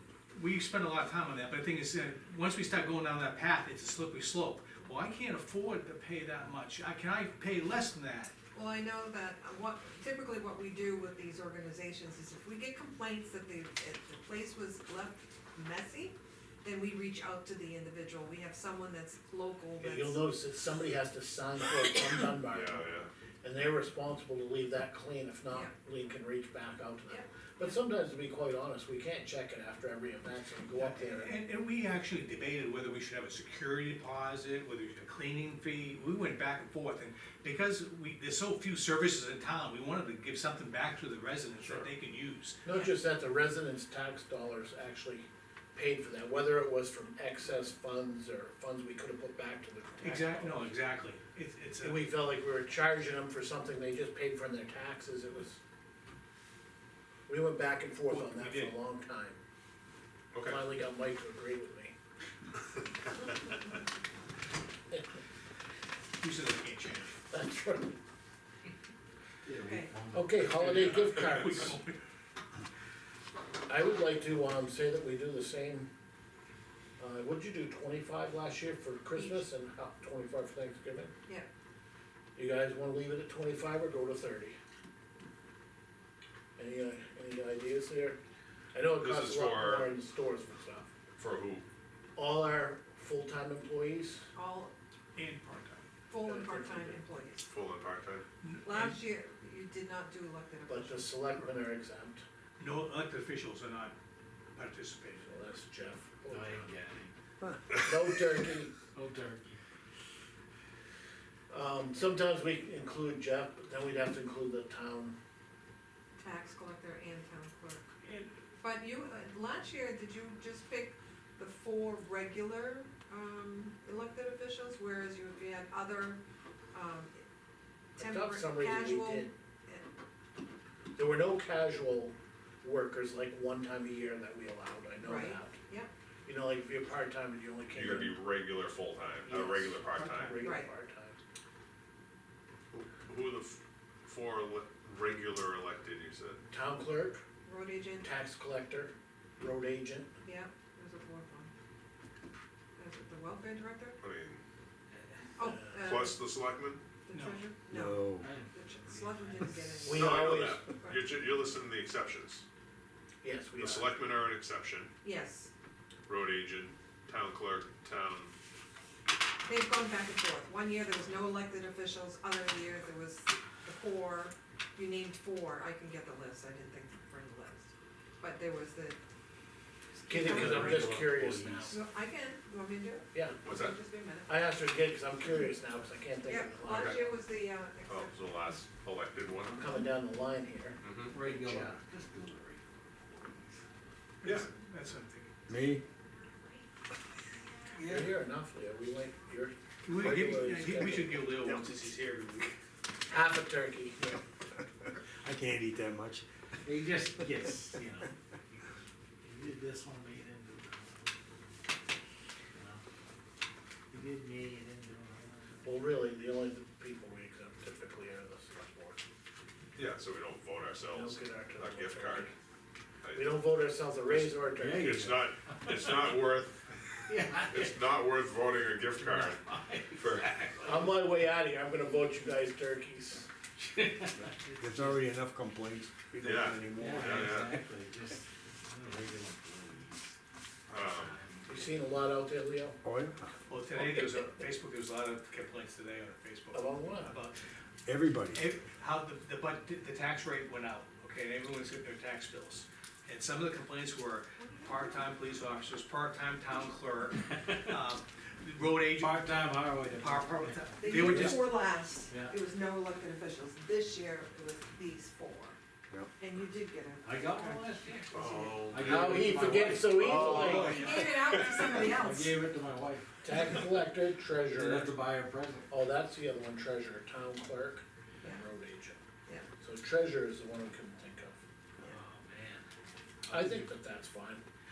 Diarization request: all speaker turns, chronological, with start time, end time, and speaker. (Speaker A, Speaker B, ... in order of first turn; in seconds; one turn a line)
Speaker A: 0.3-8.3
Speaker B: 8.5-20.2
Speaker C: 19.8-22.9
Speaker D: 22.5-23.1
Speaker C: 23.4-31.3
Speaker B: 27.1-27.7
Speaker A: 30.7-42.6
Speaker D: 41.6-41.9
Speaker C: 42.6-50.7
Speaker A: 50.0-52.0
Speaker C: 51.8-55.6
Speaker C: 57.3-59.4
Speaker A: 58.1-58.7
Speaker D: 60.3-60.6
Speaker C: 60.5-61.9
Speaker A: 66.2-67.2
Speaker C: 67.3-68.0
Speaker E: 69.5-70.9
Speaker B: 69.7-69.9
Speaker C: 70.1-71.8
Speaker A: 70.5-72.0
Speaker C: 73.7-75.9
Speaker C: 77.0-81.1
Speaker B: 79.2-79.5
Speaker C: 82.4-84.5
Speaker C: 86.6-88.2
Speaker C: 88.7-90.9
Speaker D: 89.0-89.9
Speaker D: 91.2-91.7
Speaker C: 92.2-94.3
Speaker B: 94.3-94.7
Speaker A: 95.2-95.9
Speaker B: 96.1-97.5
Speaker C: 96.3-97.0
Speaker D: 97.4-98.2
Speaker A: 98.4-99.0
Speaker B: 98.7-101.2
Speaker C: 100.7-102.2
Speaker A: 102.6-103.9
Speaker A: 104.5-105.4
Speaker C: 105.2-106.7
Speaker E: 106.3-107.1
Speaker C: 107.7-108.7
Speaker E: 108.9-109.5
Speaker C: 111.5-115.2
Speaker B: 116.2-117.9
Speaker A: 118.0-118.3
Speaker B: 118.6-127.2
Speaker B: 128.0-129.9
Speaker C: 128.0-129.3
Speaker C: 131.0-135.6
Speaker B: 135.0-135.9
Speaker C: 136.3-138.2
Speaker D: 137.7-140.5
Speaker C: 139.3-141.2
Speaker B: 140.4-140.7
Speaker D: 142.7-146.4
Speaker C: 146.5-147.2
Speaker B: 147.4-148.1
Speaker C: 148.0-150.1
Speaker B: 150.2-151.5
Speaker B: 152.8-154.0
Speaker D: 154.0-154.4
Speaker E: 155.4-155.8
Speaker B: 155.4-156.2
Speaker D: 155.8-156.8
Speaker B: 157.1-159.9
Speaker A: 157.1-157.4
Speaker F: 157.7-158.3
Speaker E: 158.2-160.2
Speaker C: 159.8-160.7
Speaker D: 159.9-162.4
Speaker C: 163.2-163.9
Speaker D: 163.6-164.9
Speaker B: 165.0-165.5
Speaker D: 166.1-168.3
Speaker B: 169.4-179.0
Speaker B: 179.9-180.8
Speaker C: 180.1-181.8
Speaker E: 180.2-181.8
Speaker B: 181.7-184.3
Speaker D: 183.4-183.8
Speaker C: 184.3-187.1
Speaker B: 186.2-188.2
Speaker D: 186.7-187.0
Speaker D: 187.9-189.6
Speaker C: 189.5-191.8
Speaker D: 190.8-191.1
Speaker E: 191.1-193.6
Speaker A: 194.2-195.3
Speaker F: 195.5-195.8
Speaker E: 197.8-198.1
Speaker C: 197.8-201.2
Speaker A: 199.8-202.0
Speaker E: 201.5-202.5
Speaker C: 203.1-204.2
Speaker F: 205.2-206.2
Speaker E: 206.6-208.7
Speaker E: 209.2-211.1
Speaker E: 213.9-215.6
Speaker C: 215.6-219.0
Speaker D: 219.8-222.3
Speaker C: 220.9-222.3
Speaker D: 223.0-223.4
Speaker C: 223.2-224.9
Speaker D: 224.1-226.7
Speaker E: 224.5-226.1
Speaker E: 227.1-227.9
Speaker D: 227.5-229.4
Speaker E: 229.0-230.9
Speaker D: 230.0-230.3
Speaker C: 230.6-233.3
Speaker E: 233.6-235.0
Speaker F: 234.6-237.3
Speaker D: 236.2-237.6
Speaker E: 236.8-240.1
Speaker D: 240.7-241.2
Speaker E: 240.7-242.0
Speaker C: 241.5-242.8
Speaker F: 242.8-243.3
Speaker A: 243.5-247.4
Speaker C: 246.5-247.1
Speaker F: 247.9-248.5
Speaker A: 248.3-259.4
Speaker B: 254.4-255.2
Speaker E: 258.9-261.6
Speaker A: 260.0-261.5
Speaker B: 260.8-265.6
Speaker E: 262.1-262.4
Speaker B: 266.2-267.6
Speaker E: 267.0-273.6
Speaker D: 268.1-269.1
Speaker B: 268.2-268.6
Speaker C: 268.8-270.8
Speaker F: 270.0-270.5
Speaker B: 270.7-272.4
Speaker C: 273.2-274.9
Speaker E: 274.5-275.7
Speaker C: 275.7-279.0
Speaker C: 279.6-281.4
Speaker E: 281.8-282.6
Speaker E: 283.3-283.7
Speaker C: 283.3-284.4